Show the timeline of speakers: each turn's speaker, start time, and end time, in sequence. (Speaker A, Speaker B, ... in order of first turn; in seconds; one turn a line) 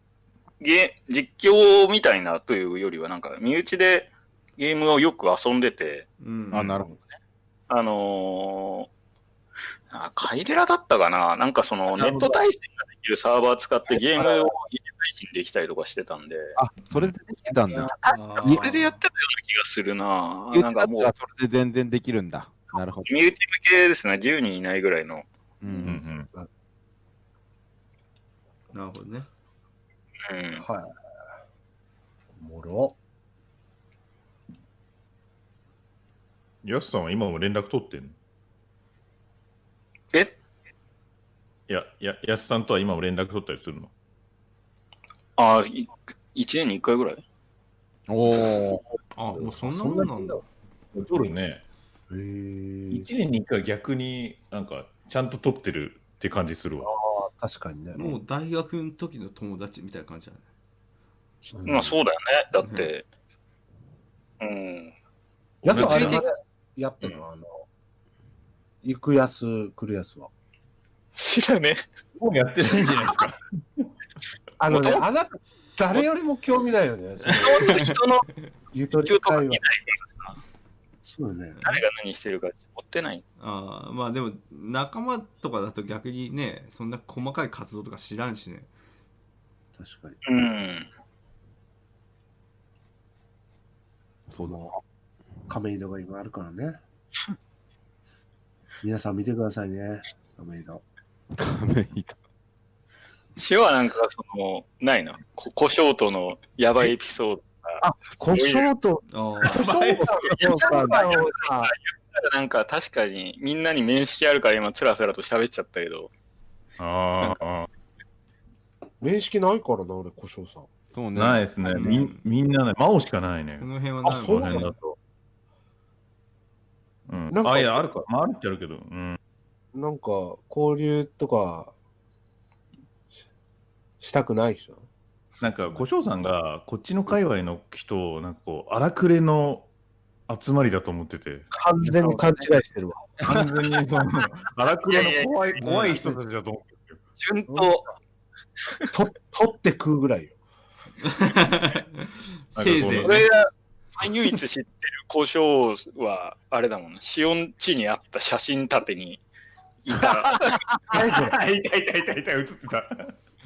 Speaker A: 0.6-6.1
Speaker B: 6.2-6.7
Speaker C: 6.5-7.0
Speaker A: 7.7-8.9
Speaker A: 9.9-16.5
Speaker D: 11.9-12.4
Speaker C: 16.6-18.6
Speaker A: 18.0-21.1
Speaker B: 18.1-19.0
Speaker C: 20.5-23.1
Speaker A: 23.1-25.3
Speaker C: 25.6-26.0
Speaker D: 25.7-26.5
Speaker E: 25.8-26.3
Speaker B: 28.7-29.3
Speaker A: 30.3-30.6
Speaker D: 30.6-30.9
Speaker D: 32.4-32.9
Speaker E: 36.6-38.1
Speaker E: 41.7-43.9
Speaker A: 45.4-47.2
Speaker C: 48.1-48.8
Speaker B: 49.1-50.4
Speaker D: 49.3-50.4
Speaker E: 50.9-51.6
Speaker D: 52.1-53.1
Speaker E: 52.9-56.9
Speaker D: 56.8-58.2
Speaker B: 57.9-60.4
Speaker D: 61.5-61.9
Speaker A: 61.6-63.0
Speaker B: 62.6-62.9
Speaker A: 64.4-64.9
Speaker D: 65.6-67.5
Speaker E: 65.7-66.2
Speaker A: 65.7-66.3
Speaker D: 68.8-70.3
Speaker A: 71.2-71.8
Speaker E: 72.2-73.9
Speaker D: 74.6-77.9
Speaker A: 74.7-75.0
Speaker A: 77.3-78.3
Speaker B: 77.5-77.9
Speaker D: 78.7-79.6
Speaker A: 79.0-80.4
Speaker D: 81.0-81.6
Speaker A: 81.6-83.2
Speaker B: 83.4-88.7
Speaker D: 89.8-90.2
Speaker A: 90.2-90.9
Speaker C: 94.3-94.6
Speaker D: 94.4-94.7
Speaker D: 95.5-96.8
Speaker D: 98.8-100.8
Speaker C: 101.4-102.2
Speaker A: 103.3-108.7
Speaker D: 107.8-111.7
Speaker B: 109.1-109.6
Speaker E: 109.4-110.5
Speaker A: 110.3-116.1
Speaker E: 116.8-117.7
Speaker D: 119.0-120.7
Speaker C: 120.9-121.4
Speaker E: 121.1-125.0
Speaker B: 121.7-122.2
Speaker B: 123.6-124.7
Speaker D: 124.1-124.7
Speaker E: 127.1-129.2
Speaker D: 127.3-127.8
Speaker D: 129.7-131.7
Speaker D: 134.0-134.9
Speaker E: 135.4-139.7
Speaker E: 140.3-141.5
Speaker D: 141.5-143.1
Speaker E: 143.2-147.0
Speaker A: 144.9-145.6
Speaker B: 145.6-146.0
Speaker D: 145.7-146.2
Speaker A: 147.2-147.8
Speaker D: 147.5-147.9
Speaker D: 148.9-150.3
Speaker B: 151.0-153.2
Speaker E: 152.6-153.3
Speaker A: 153.0-159.2
Speaker A: 159.8-160.7
Speaker D: 160.9-161.4
Speaker E: 161.0-163.1